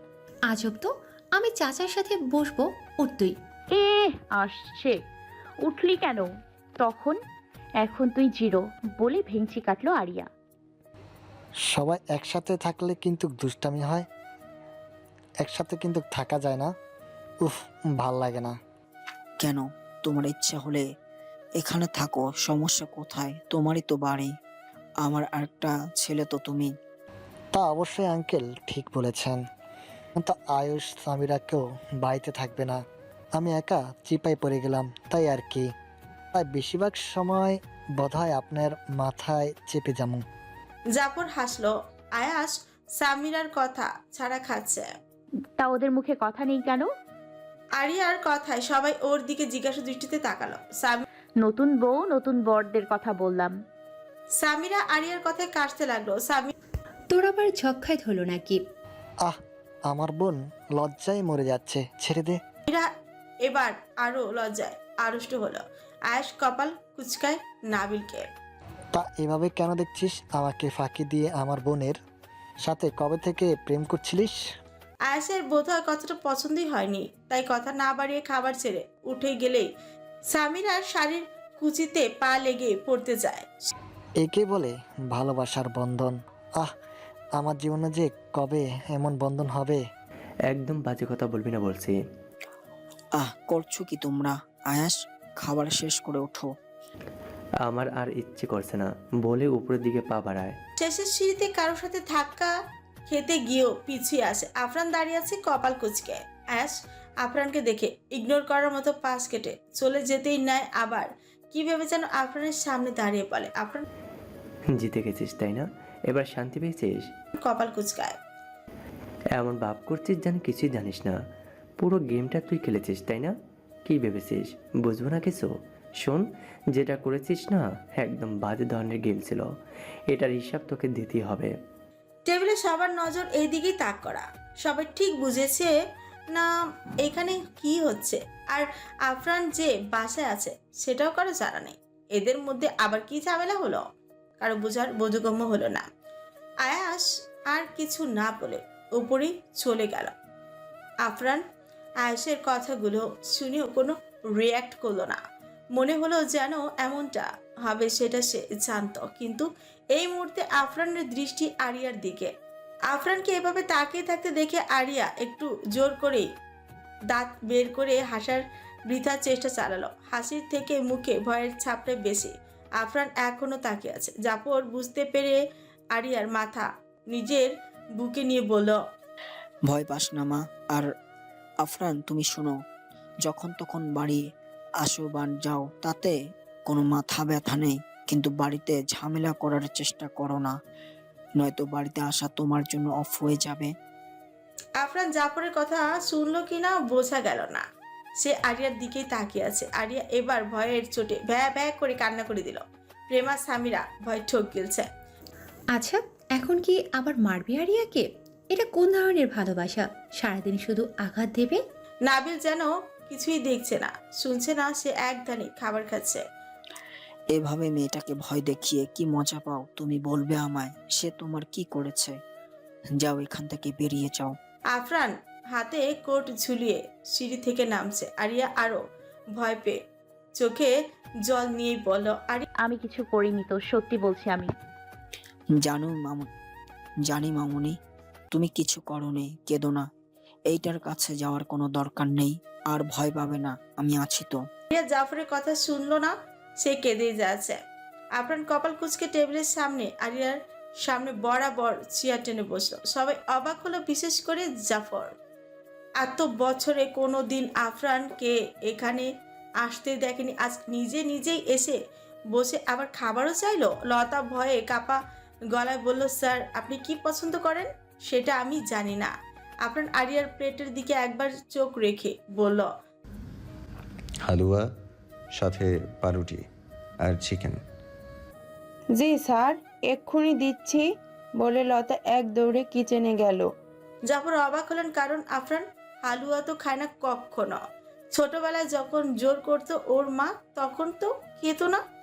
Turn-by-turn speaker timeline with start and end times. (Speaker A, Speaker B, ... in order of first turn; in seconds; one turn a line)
Speaker A: 0.5-3.4
Speaker B: 3.7-5.0
Speaker B: 5.6-6.3
Speaker B: 6.8-7.2
Speaker B: 7.8-10.3
Speaker C: 11.7-14.1
Speaker C: 15.4-16.7
Speaker C: 17.4-18.6
Speaker D: 19.4-20.9
Speaker D: 21.6-24.3
Speaker D: 25.0-26.7
Speaker C: 27.5-29.4
Speaker C: 30.2-32.8
Speaker C: 33.3-35.7
Speaker C: 36.3-40.2
Speaker E: 40.9-44.9
Speaker B: 45.6-46.9
Speaker E: 47.8-51.0
Speaker B: 51.4-53.5
Speaker E: 54.4-56.5
Speaker A: 57.1-58.6
Speaker C: 59.2-62.4
Speaker E: 63.4-68.3
Speaker C: 68.9-72.0
Speaker C: 72.6-74.4
Speaker E: 75.1-79.7
Speaker E: 80.3-83.7
Speaker C: 84.2-86.7
Speaker C: 87.3-89.8
Speaker F: 90.5-92.0
Speaker D: 93.1-96.5
Speaker F: 97.6-100.6
Speaker E: 100.8-102.5
Speaker E: 103.1-113.8
Speaker F: 114.7-117.1
Speaker E: 117.3-118.2
Speaker F: 119.3-121.2
Speaker F: 121.8-123.3
Speaker F: 123.8-129.5
Speaker F: 130.1-131.5
Speaker E: 132.3-135.7
Speaker E: 137.0-143.8
Speaker E: 144.4-145.8
Speaker E: 146.6-150.1
Speaker E: 151.0-151.4
Speaker E: 152.0-155.2
Speaker E: 155.7-162.3
Speaker E: 162.9-166.3
Speaker E: 167.1-175.4
Speaker E: 175.9-178.8
Speaker D: 179.7-180.9
Speaker D: 181.6-182.6
Speaker D: 183.2-184.2
Speaker D: 184.8-186.2
Speaker D: 186.7-190.5
Speaker D: 191.4-193.7
Speaker E: 194.8-197.6
Speaker E: 198.2-204.9
Speaker A: 205.7-211.6
Speaker E: 212.1-216.2
Speaker D: 217.3-222.2
Speaker D: 222.9-224.3
Speaker E: 224.7-228.8
Speaker E: 229.4-229.8
Speaker E: 230.4-230.7
Speaker E: 231.2-232.5
Speaker B: 232.6-234.5
Speaker D: 235.5-236.3
Speaker D: 237.0-237.8
Speaker D: 238.3-239.9
Speaker D: 240.5-244.4
Speaker E: 244.7-247.6
Speaker E: 248.2-255.1
Speaker E: 256.0-259.1
Speaker E: 259.6-261.8
Speaker E: 262.3-265.0
Speaker E: 265.5-269.1
Speaker E: 269.6-272.7
Speaker G: 274.3-274.6
Speaker G: 275.4-276.4
Speaker G: 277.1-277.6
Speaker H: 278.9-280.9
Speaker H: 281.4-283.5
Speaker E: 284.1-287.6
Speaker E: 288.1-291.8